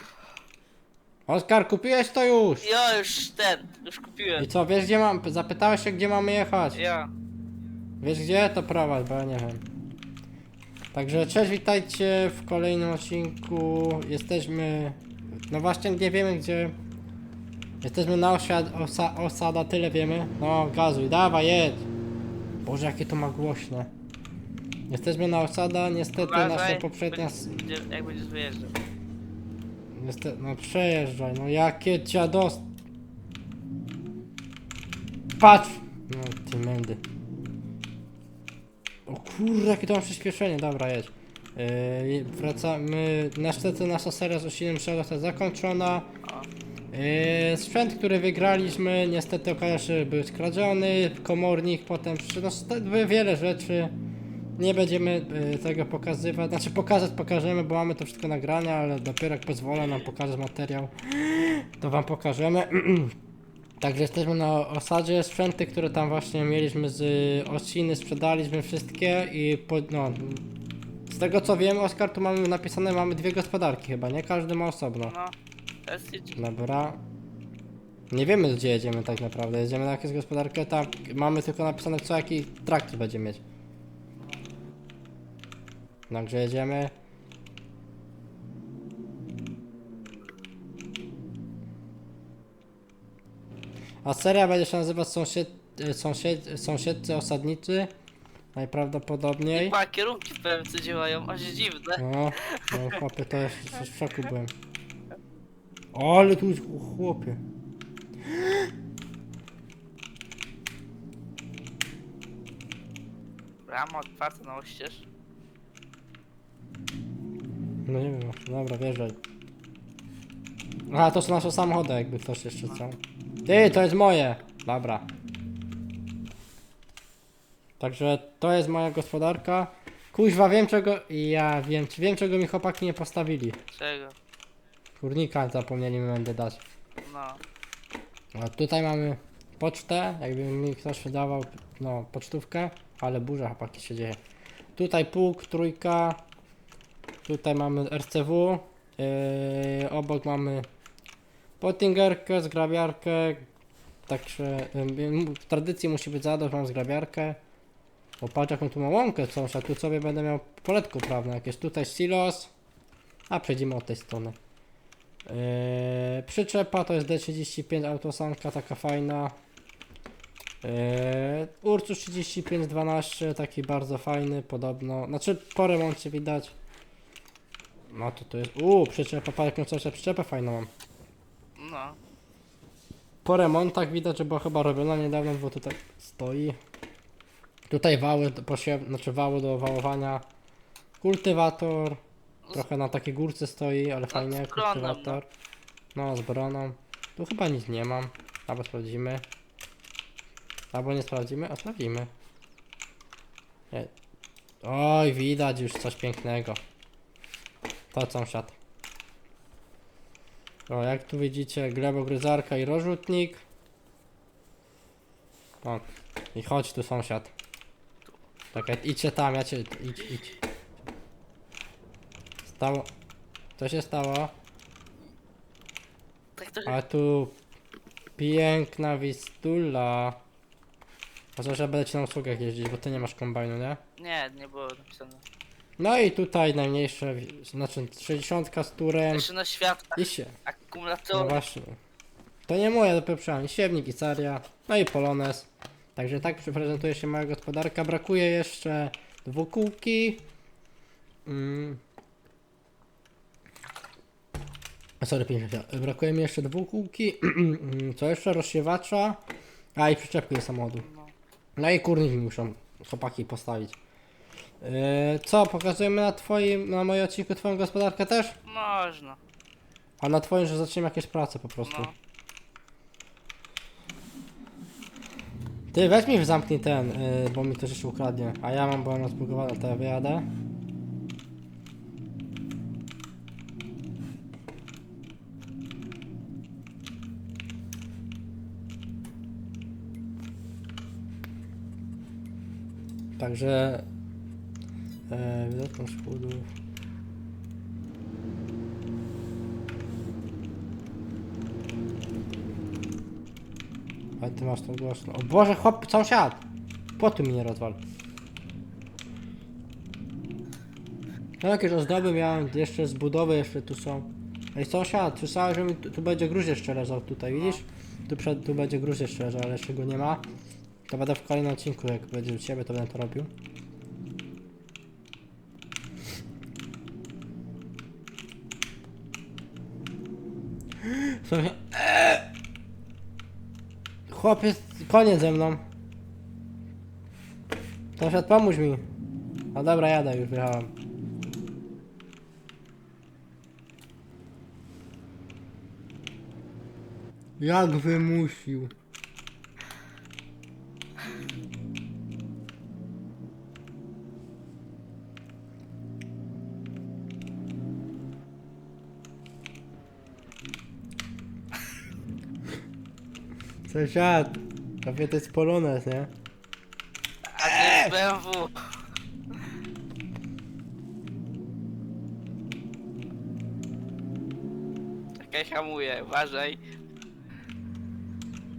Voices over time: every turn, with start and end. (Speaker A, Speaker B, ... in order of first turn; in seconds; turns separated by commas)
Speaker A: 1.3-2.6, Speaker B: 2.6-4.5, Speaker A: 4.4-6.8, Speaker B: 6.8-7.1, Speaker A: 8.0-9.6, Speaker A: 10.9-16.8, Speaker A: 17.8-21.9, Speaker A: 22.6-23.9, Speaker A: 24.9-27.5, Speaker B: 26.2-28.8, Speaker A: 29.9-32.6, Speaker A: 35.4-37.0, Speaker A: 39.1-46.1, Speaker A: 46.9-53.9, Speaker A: 54.6-63.1, Speaker A: 63.8-70.5, Speaker A: 71.1-75.1, Speaker B: 75.1-76.4, Speaker A: 76.4-77.0, Speaker A: 78.1-83.4, Speaker A: 86.1-86.9, Speaker A: 94.0-97.9, Speaker A: 98.5-99.8, Speaker B: 99.5-103.0, Speaker A: 102.0-104.5, Speaker A: 105.9-107.4, Speaker A: 108.3-108.7, Speaker B: 113.6-115.1, Speaker A: 117.9-119.2, Speaker A: 120.9-125.1, Speaker A: 127.8-133.6, Speaker B: 133.7-134.2, Speaker A: 135.0-136.6, Speaker B: 137.0-137.4, Speaker A: 138.3-144.2, Speaker A: 144.8-146.2, Speaker A: 147.2-150.7, Speaker A: 151.6-153.4, Speaker A: 154.1-157.4, Speaker A: 158.2-162.5, Speaker A: 163.3-164.4, Speaker A: 165.3-169.3, Speaker A: 170.6-176.5, Speaker A: 177.9-180.7, Speaker B: 181.6-182.0, Speaker A: 183.2-186.6, Speaker A: 187.7-190.2, Speaker A: 191.0-192.0, Speaker A: 192.5-195.3, Speaker B: 194.1-195.2, Speaker A: 195.9-199.2, Speaker A: 200.7-202.1, Speaker A: 204.6-206.6, Speaker A: 207.9-208.6, Speaker A: 210.7-213.4, Speaker A: 215.6-217.3, Speaker A: 218.5-220.4, Speaker A: 222.5-222.9, Speaker A: 223.6-224.3, Speaker B: 226.4-226.8, Speaker A: 226.7-227.3, Speaker A: 228.2-230.2, Speaker A: 231.4-233.8, Speaker B: 234.0-235.2, Speaker A: 235.8-239.3, Speaker B: 239.1-241.4, Speaker A: 240.0-240.3, Speaker A: 241.1-241.8, Speaker A: 242.5-250.2, Speaker A: 251.3-251.8, Speaker A: 255.0-259.2, Speaker A: 259.8-260.9, Speaker B: 260.8-261.1, Speaker A: 261.6-263.8, Speaker A: 264.6-268.4, Speaker B: 268.4-269.2, Speaker A: 270.0-271.9, Speaker B: 271.6-271.9, Speaker A: 275.7-280.3, Speaker A: 293.2-293.9, Speaker A: 295.1-296.5, Speaker A: 304.2-306.4, Speaker A: 307.0-307.8, Speaker A: 311.4-320.2, Speaker B: 317.3-317.6, Speaker A: 320.9-323.3, Speaker A: 330.8-332.3, Speaker A: 334.1-335.6, Speaker A: 338.0-338.8, Speaker A: 339.5-340.7, Speaker A: 347.4-348.7, Speaker A: 363.7-366.1, Speaker B: 367.3-368.7, Speaker A: 367.4-367.9, Speaker B: 375.2-376.6